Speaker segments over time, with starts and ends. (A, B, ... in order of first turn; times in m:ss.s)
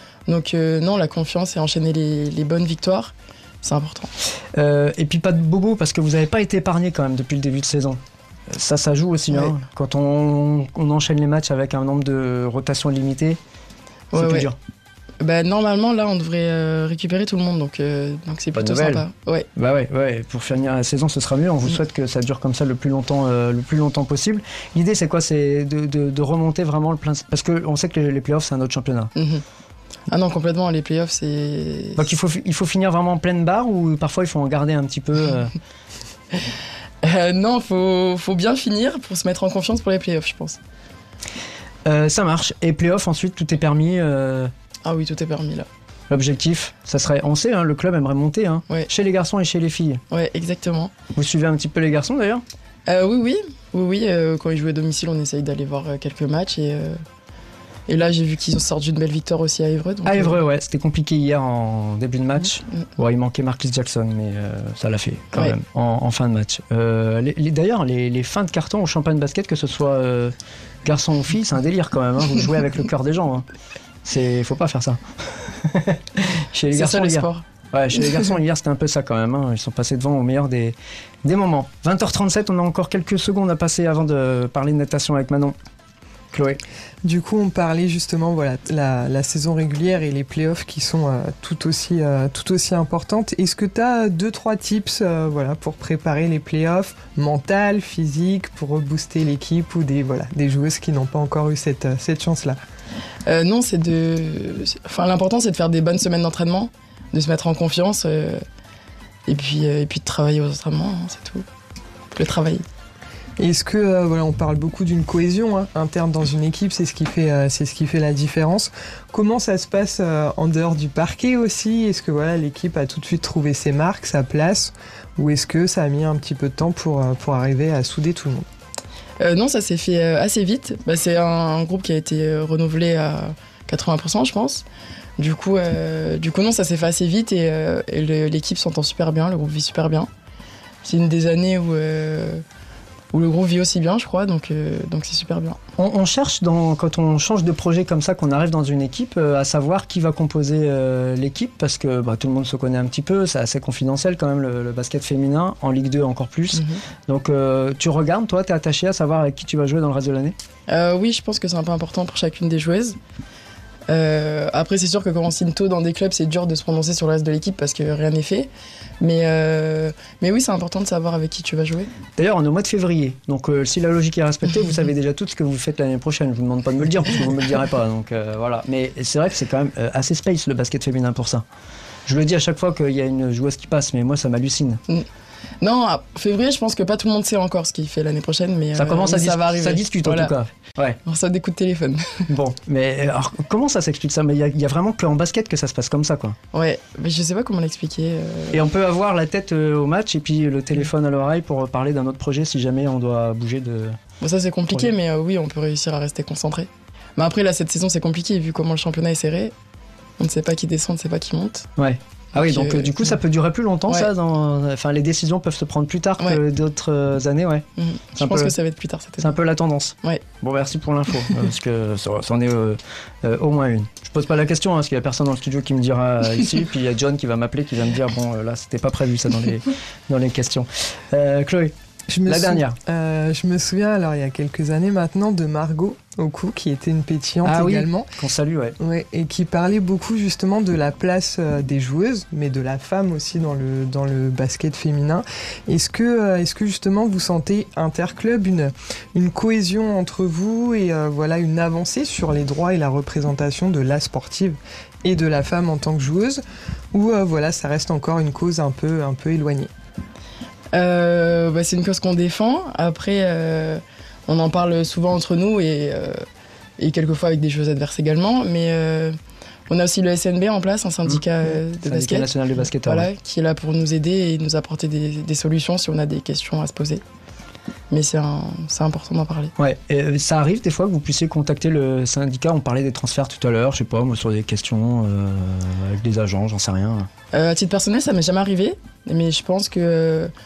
0:00.3-0:04.1 A
0:04.5-0:13.4 B
0:14.1-0:14.5 A
0:14.1-0:14.6 B
0:15.2-0:19.5 A
0:18.5-0:19.0 B
0:19.6-0:29.1 B
0:29.2-0:29.4 A
0:30.1-0:32.0 A
0:32.0-0:35.5 B
0:37.0-0:40.6 A
0:41.9-0:44.5 B
0:44.8-0:45.7 A
0:46.1-0:50.0 B
0:50.1-0:50.9 A
0:51.1-0:52.4 B
0:52.9-0:57.0 A
0:57.9-1:00.4 A
1:00.0-1:13.4 B
1:14.0-1:25.6 B
1:16.7-1:17.4 A
1:26.3-1:26.6 B
1:27.0-1:42.6 C
1:43.3-1:48.4 A
1:49.3-1:51.4 A
1:52.1-1:52.6 A
1:53.4-2:08.4 C
2:09.2-2:14.6 A
2:15.2-2:20.1 A
2:20.8-2:22.4 A
2:23.1-2:25.6 A
2:25.8-2:40.4 B
2:36.5-2:36.8 A
2:40.7-2:43.0 A
2:43.9-2:48.5 A
2:49.0-2:51.9 A
2:52.2-3:01.4 B
3:02.0-3:04.8 B
3:05.6-3:10.3 A
3:08.7-3:11.0 B
3:11.0-3:12.3 A
3:12.3-3:16.4 B
3:16.5-3:18.6 A
3:18.5-3:24.0 B
3:24.2-3:29.5 A
3:30.2-3:31.7 A
3:31.8-3:38.5 B
3:32.3-3:33.1 A
3:37.8-3:39.3 A
3:39.2-3:51.7 B
3:52.1-3:58.1 C
3:52.3-3:52.8 B
3:57.4-3:58.8 B
3:58.8-4:19.7 C
4:20.7-4:26.2 A
4:26.8-4:29.2 A
4:29.7-4:32.3 A
4:31.8-4:33.1 B
4:32.8-4:37.0 A
4:37.9-4:39.5 A
4:39.6-4:47.1 B
4:47.3-4:50.3 A